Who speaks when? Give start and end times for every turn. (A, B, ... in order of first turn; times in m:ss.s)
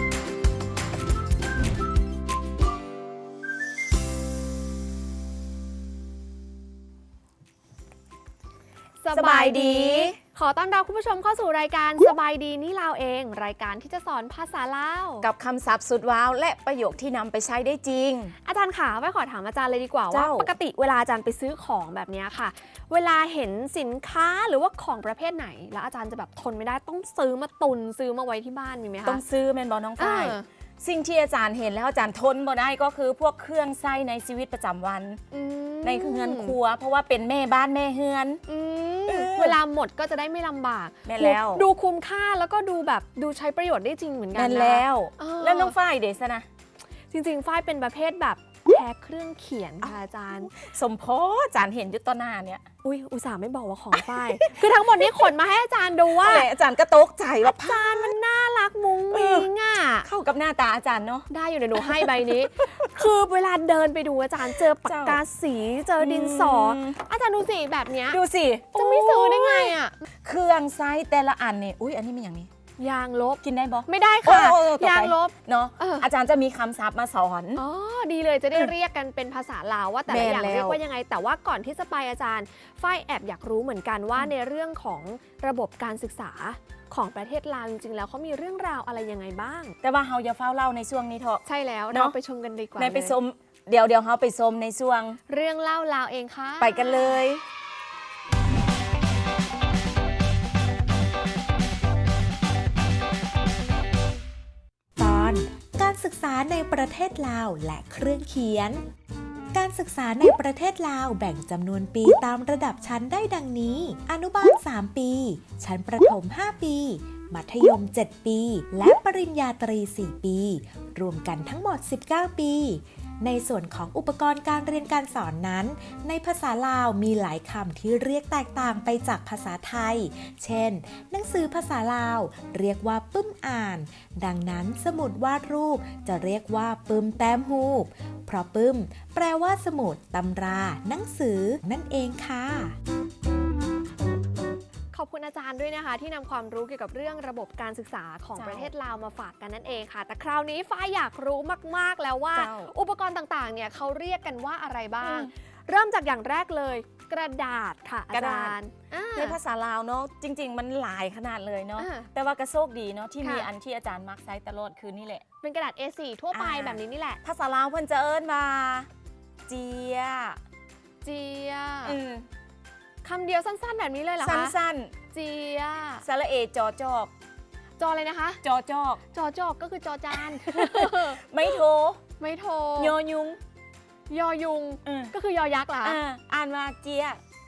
0:09.0-0:15.3 A
0:09.1-0:10.2 B
0:15.2-0:18.4 B
0:18.4-0:29.2 A
0:20.1-0:20.5 B
0:29.1-0:35.2 B
0:30.0-0:30.4 A
0:35.3-0:36.6 A
0:35.8-0:38.4 B
0:38.5-0:45.8 A
0:39.1-0:39.6 B
0:41.0-0:41.6 B
0:44.3-0:46.5 B
0:47.1-0:50.5 A
0:50.6-0:52.6 B
0:52.8-0:56.5 A
0:54.0-0:55.3 B
0:56.1-0:58.2 B
0:57.4-1:00.1 A
0:59.1-0:59.5 B
1:00.0-1:02.7 B
1:01.3-1:08.2 A
1:04.8-1:05.2 B
1:06.0-1:07.0 B
1:08.1-1:12.5 B
1:08.7-1:10.0 A
1:12.8-1:16.1 A
1:13.4-1:17.6 B
1:17.6-1:29.8 A
1:20.1-1:20.8 B
1:29.8-1:32.2 B
1:31.4-1:33.2 A
1:32.8-1:35.2 B
1:35.3-1:37.2 A
1:36.6-1:37.4 B
1:45.0-1:48.8 C
1:49.5-2:22.8 C
2:24.9-2:39.4 A
2:28.4-2:28.7 B
2:32.3-2:32.7 B
2:35.0-2:35.3 B
2:38.1-2:38.6 B
2:39.2-2:45.2 B
2:41.8-2:42.1 A
2:43.2-2:43.5 A
2:45.4-2:47.2 A
2:46.3-2:48.9 B
2:49.5-2:50.4 B
2:51.0-2:52.0 A
2:51.8-2:52.3 B
2:53.0-2:54.6 A
2:54.2-2:54.9 B
2:55.1-2:56.0 A
2:56.0-2:57.1 B
2:57.8-2:58.4 A
2:58.4-2:59.0 B
2:59.1-3:01.6 A
3:00.3-3:02.0 B
3:02.2-3:02.9 A
3:02.8-3:03.4 B
3:04.1-3:06.0 A
3:04.8-3:05.1 B
3:05.8-3:07.2 B